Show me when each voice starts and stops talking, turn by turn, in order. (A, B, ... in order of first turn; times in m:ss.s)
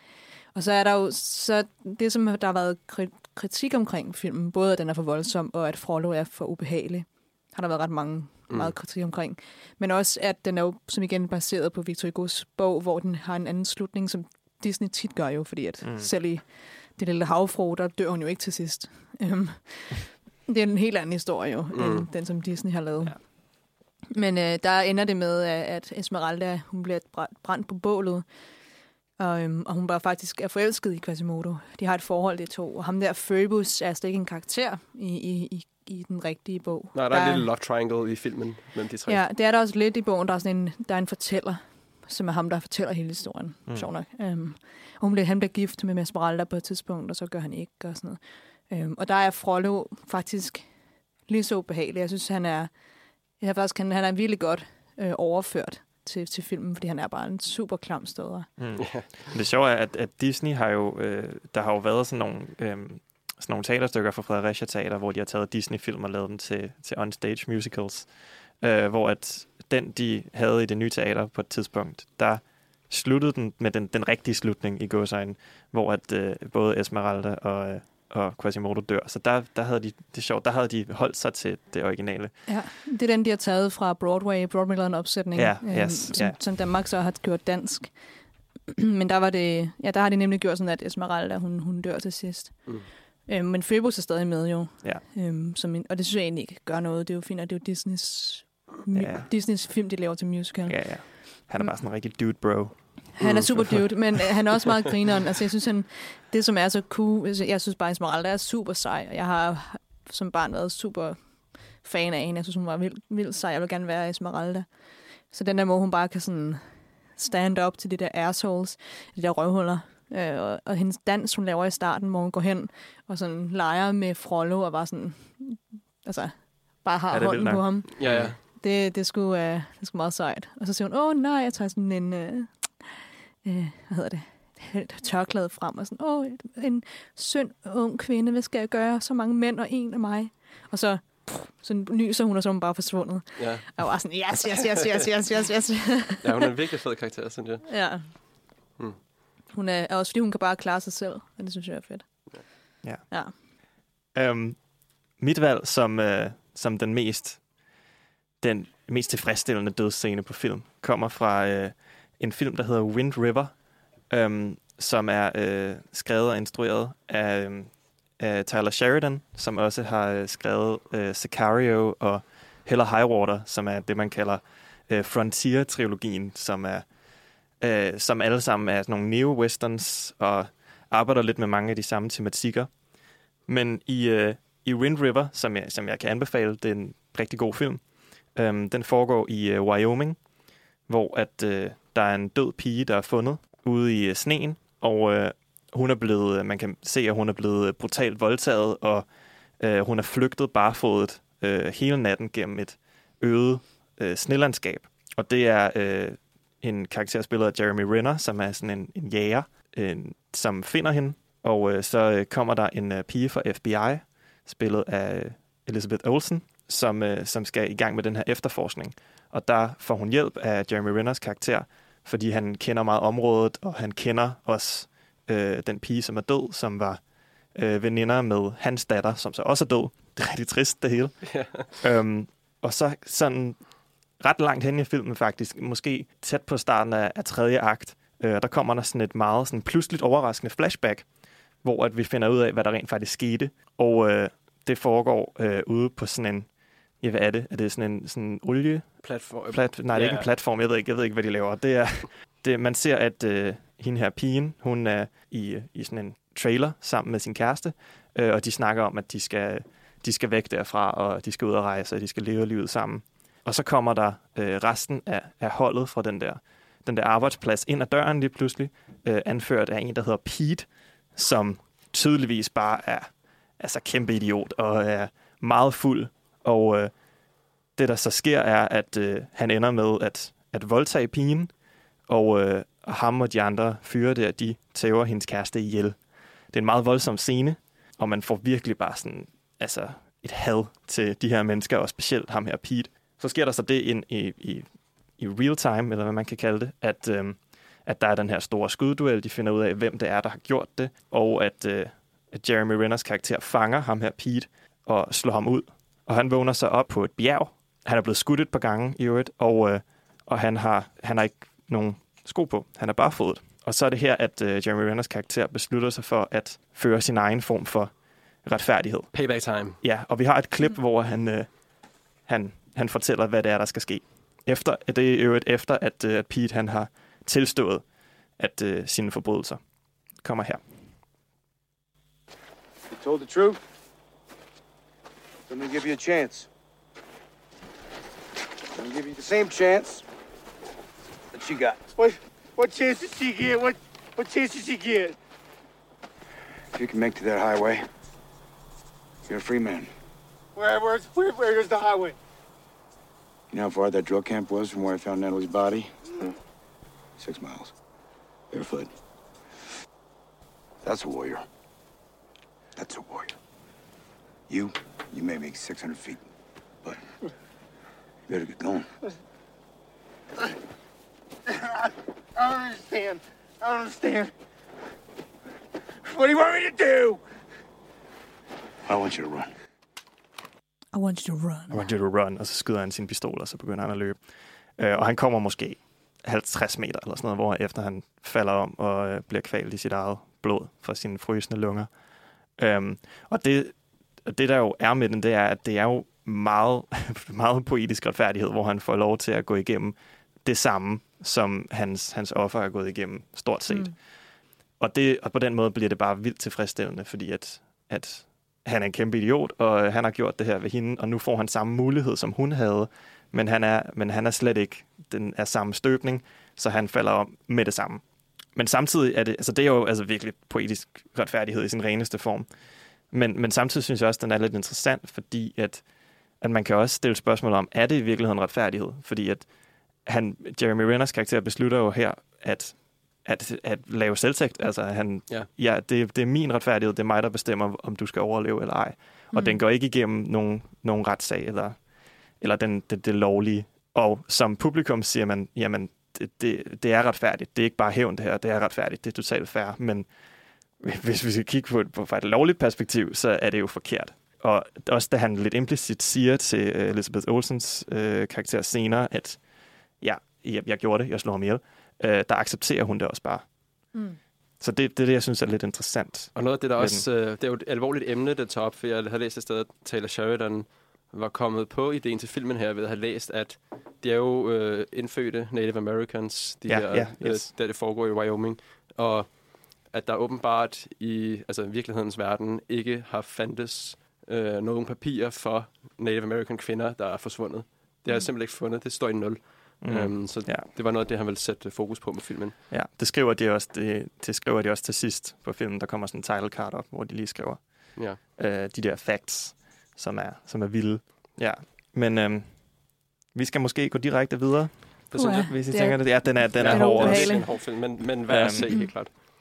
0:00.5-0:23.3 A
0:15.8-0:16.1 B
0:21.7-0:22.1 C
0:24.1-0:28.2 A
0:29.2-0:37.5 A
0:36.9-0:39.2 C
0:39.1-0:50.7 A
0:51.3-0:52.7 A
0:53.4-0:58.5 A
0:58.6-1:22.4 B
0:58.8-0:59.1 C
1:22.5-1:27.9 A
1:25.3-1:26.4 B
1:28.7-1:41.7 A
1:38.9-1:39.3 B
1:40.6-1:43.8 B
1:43.2-1:54.7 A
1:43.2-1:43.8 C
1:55.2-1:56.6 A
1:57.2-2:26.2 A
2:07.1-2:08.4 B
2:08.0-2:08.4 C
2:23.4-2:23.8 C
2:24.5-2:25.3 C
2:26.2-2:28.2 C
2:27.7-2:28.1 A
2:29.5-2:33.3 A
2:34.1-2:34.6 B
2:35.2-2:37.4 B
2:38.4-2:43.5 B
2:44.1-2:56.8 B
2:57.6-3:02.7 B
3:03.5-3:10.2 B
3:10.9-3:19.0 B
3:19.6-3:47.0 B
3:47.5-3:53.6 B
3:51.2-3:51.7 C
3:54.2-4:01.1 B
4:01.6-4:06.5 B
4:07.0-4:36.9 B
4:09.0-4:10.3 C
4:37.8-4:41.5 B
4:42.1-4:46.0 B
4:46.5-5:21.6 B
5:19.1-5:19.8 C
5:22.2-5:27.8 B
5:28.4-5:29.6 B
5:30.2-5:30.6 B
5:33.0-5:33.4 D
5:42.0-5:45.1 D
5:46.7-5:47.8 E
5:49.3-5:49.9 E
5:50.6-5:52.1 D
5:53.5-5:55.9 E
5:57.2-5:57.7 E
5:58.5-5:58.9 E
6:00.8-6:01.4 E
6:02.8-6:03.3 E
6:04.5-6:06.2 E
6:08.3-6:08.9 E
6:12.4-6:14.3 D
6:16.0-6:17.2 D
6:18.9-6:19.5 E
6:20.9-6:21.8 A
6:21.7-6:24.2 B
6:24.8-6:31.9 B
6:32.6-6:44.1 B
6:43.7-6:43.9 A
6:44.8-6:58.0 B
6:58.5-7:02.5 B
7:03.1-7:05.8 B
7:06.4-7:09.5 B
7:10.0-7:21.8 B
7:19.3-7:19.6 A
7:22.4-7:30.1 B
7:30.8-7:39.4 B
7:40.0-7:43.5 B
7:43.9-7:44.2 A
7:44.6-7:47.0 B
7:46.3-8:12.6 C
7:56.7-7:57.5 B
8:09.8-8:10.6 B
8:12.7-8:22.6 B
8:23.3-8:29.0 B
8:25.1-8:26.1 C
8:25.1-8:27.5 A
8:26.6-8:29.2 C